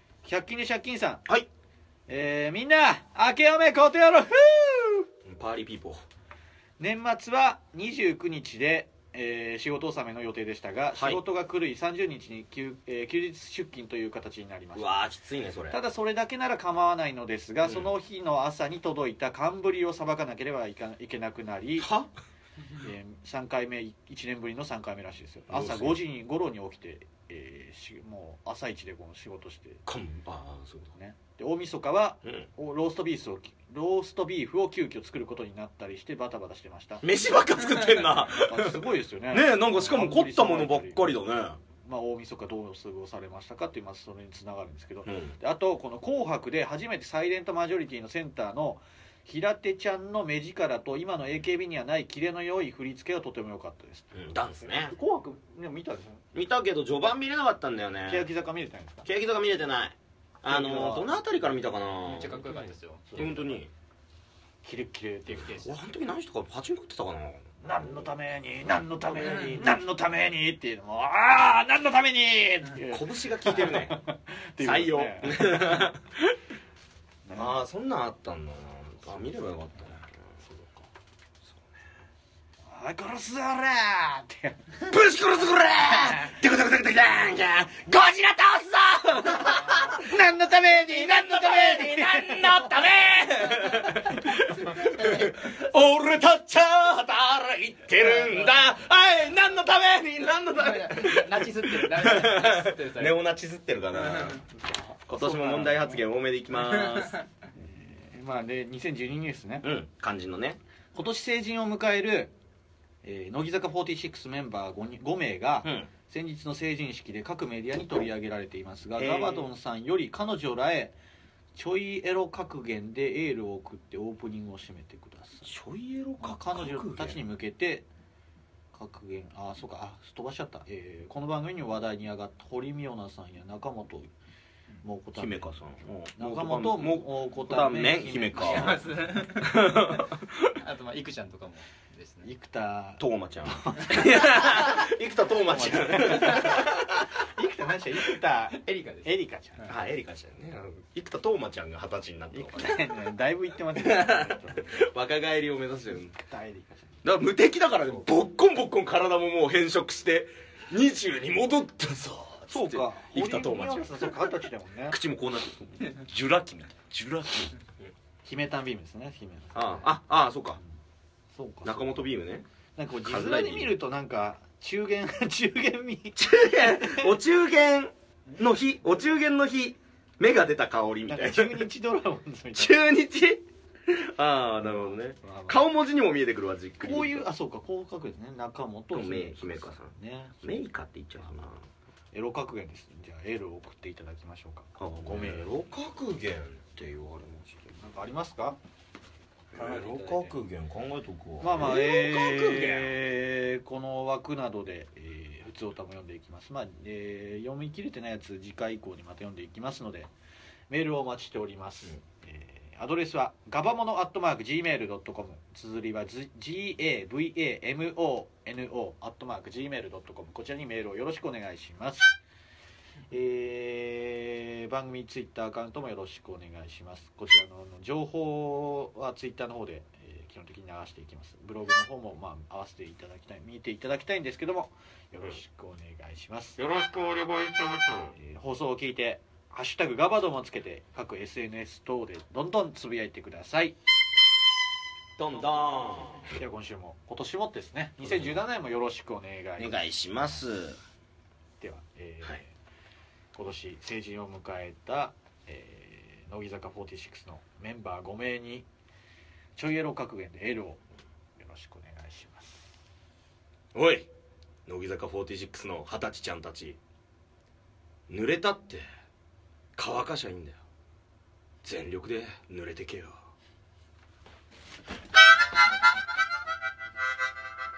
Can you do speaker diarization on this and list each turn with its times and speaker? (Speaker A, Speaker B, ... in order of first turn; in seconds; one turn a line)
Speaker A: 0.2-1.2
Speaker A: 2.1-5.1
Speaker B: 5.2-6.0
Speaker A: 6.8-15.0
Speaker B: 10.9-11.2
Speaker B: 14.7-15.8
Speaker A: 15.7-21.9
Speaker B: 21.8-22.1
Speaker A: 22.8-29.8
Speaker B: 25.5-26.0
Speaker B: 29.9-30.9
Speaker A: 30.9-37.0
Speaker B: 37.0-41.6
Speaker A: 38.1-41.1
Speaker A: 41.8-56.2
Speaker B: 45.0-45.3
Speaker B: 54.1-55.0
Speaker B: 56.3-58.3
Speaker A: 58.1-59.1
Speaker B: 59.0-62.4
Speaker A: 60.5-61.1
Speaker C: 62.0-63.2
Speaker A: 63.1-63.6
Speaker B: 63.1-63.7
Speaker A: 64.6-65.6
Speaker C: 65.3-65.7
Speaker B: 65.6-67.4
Speaker A: 67.6-75.9
Speaker B: 72.8-74.0
Speaker B: 74.6-76.3
Speaker A: 77.2-77.5
Speaker B: 77.3-80.2
Speaker A: 80.4-80.8
Speaker A: 82.7-84.7
Speaker B: 84.8-104.4
Speaker A: 85.9-86.3
Speaker A: 89.5-92.7
Speaker C: 94.7-95.3
Speaker C: 98.0-98.6
Speaker C: 100.5-103.2
Speaker C: 104.0-104.4
Speaker A: 105.1-106.0
Speaker B: 105.1-107.1
Speaker C: 106.8-107.2
Speaker A: 107.6-109.6
Speaker B: 109.6-110.6
Speaker A: 110.9-112.3
Speaker A: 113.0-120.9
Speaker B: 115.6-115.9
Speaker B: 119.0-119.5
Speaker A: 121.5-125.5
Speaker B: 125.4-127.2
Speaker A: 126.2-127.8
Speaker A: 128.7-134.1
Speaker A: 134.8-135.6
Speaker B: 135.2-138.8
Speaker A: 136.2-138.8
Speaker C: 138.3-139.9
Speaker B: 139.4-140.5
Speaker C: 140.5-142.3
Speaker A: 142.2-144.6
Speaker B: 143.0-147.1
Speaker A: 145.5-149.7
Speaker C: 148.5-149.1
Speaker B: 149.7-152.9
Speaker A: 152.3-154.8
Speaker B: 153.7-156.1
Speaker A: 156.2-156.8
Speaker B: 157.0-164.4
Speaker A: 162.5-165.0
Speaker B: 164.9-167.5
Speaker A: 168.2-169.9
Speaker B: 169.5-170.6
Speaker A: 171.3-172.1
Speaker B: 171.6-172.4
Speaker A: 172.8-177.1
Speaker B: 173.0-173.8
Speaker B: 176.2-181.7
Speaker A: 181.1-182.7
Speaker B: 182.6-187.2
Speaker A: 184.6-185.6
Speaker A: 186.8-190.5
Speaker B: 188.9-189.9
Speaker B: 190.4-191.6
Speaker A: 192.1-195.5
Speaker B: 194.8-197.6
Speaker A: 197.7-198.6
Speaker B: 199.5-202.9
Speaker A: 199.6-200.3
Speaker A: 201.4-210.1
Speaker A: 210.7-222.1
Speaker A: 223.1-236.8
Speaker B: 236.7-237.9
Speaker A: 238.1-243.8
Speaker B: 245.2-246.3
Speaker A: 246.3-250.4
Speaker B: 248.0-248.4
Speaker B: 249.6-250.8
Speaker A: 251.6-252.5
Speaker A: 253.3-258.7
Speaker A: 259.6-260.8
Speaker A: 261.4-262.7
Speaker B: 263.7-264.1
Speaker B: 264.7-266.8
Speaker B: 268.1-268.8
Speaker B: 269.8-270.6
Speaker B: 271.6-273.2